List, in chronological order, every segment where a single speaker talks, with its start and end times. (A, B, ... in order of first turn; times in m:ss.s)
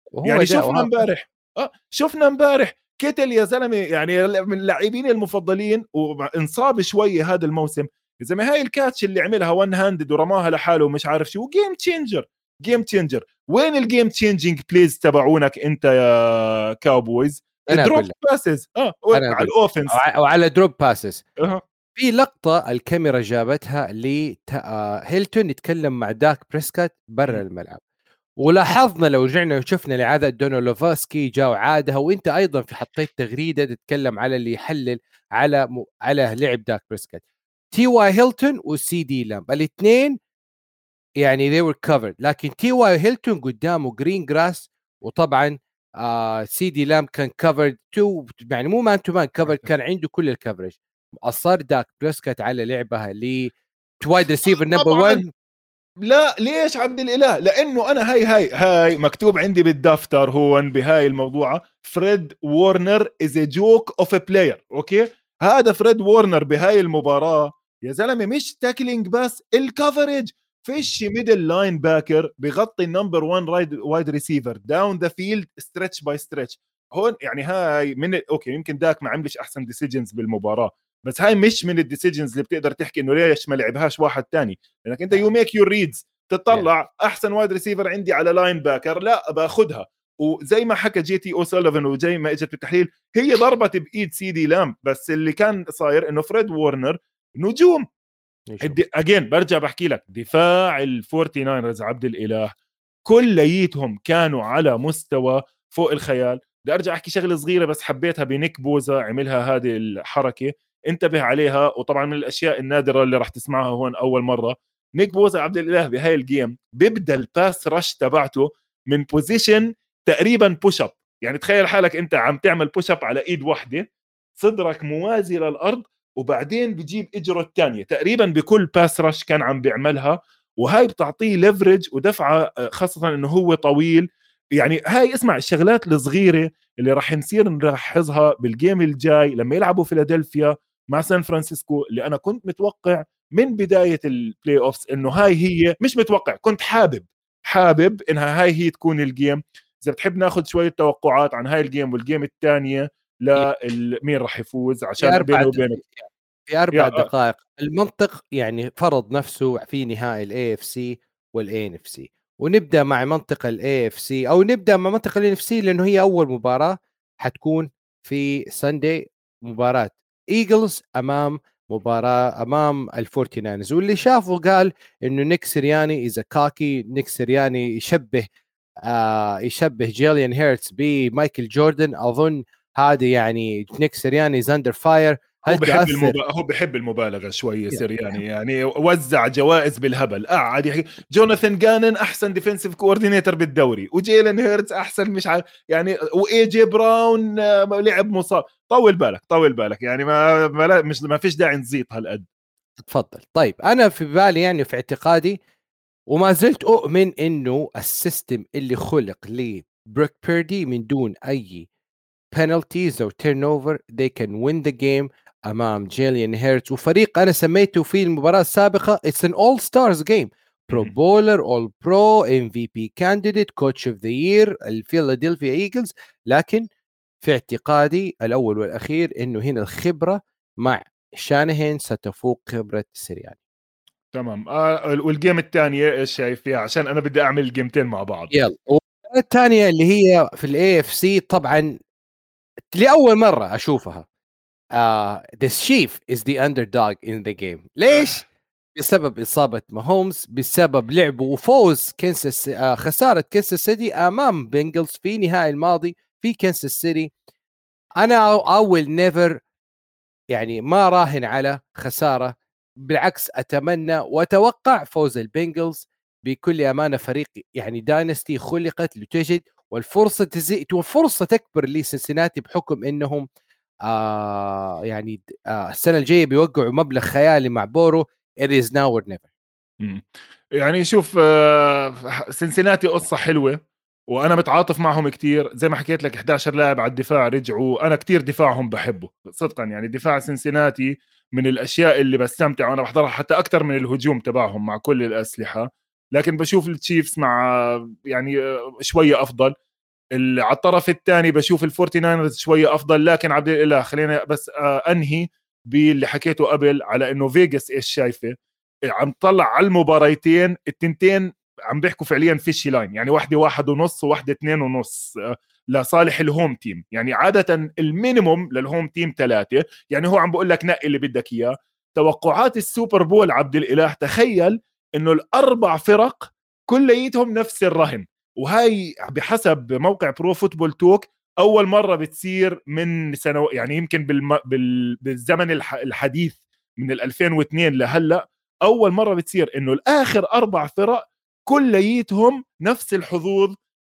0:00.2-0:01.0 A
0:00.2-0:20.0 B
0:17.7-0:18.1 A
0:19.1-0:21.2 A
0:22.0-0:27.8 A
0:28.4-0:40.2 A
0:41.2-0:55.2 A
0:54.5-0:55.2 B
0:56.0-1:37.8 B
1:38.5-1:38.8 A
1:38.6-1:42.5 B
1:43.0-2:03.8 B
2:04.4-2:35.8 B
2:35.0-2:58.3 A
2:36.7-2:37.0 B
2:58.8-3:06.2 A
3:05.5-3:22.2 B
3:22.8-3:25.4 A
3:26.1-3:31.7 A
3:32.3-3:46.6 A
3:47.2-3:53.4 A
3:54.1-3:58.3 B
3:58.3-4:01.8 A
4:02.7-4:04.0 A
4:04.8-4:08.2 A
4:07.9-4:08.2 B
4:08.7-4:17.1 A
4:18.0-4:19.4 A
4:20.3-4:22.4 A
4:22.9-4:33.2 A
4:33.9-4:39.3 A
4:39.8-4:40.0 B
4:40.6-4:43.6 B
4:44.1-4:59.5 B
5:00.2-5:08.3 B
5:08.9-5:15.1 B
5:15.7-5:43.5 B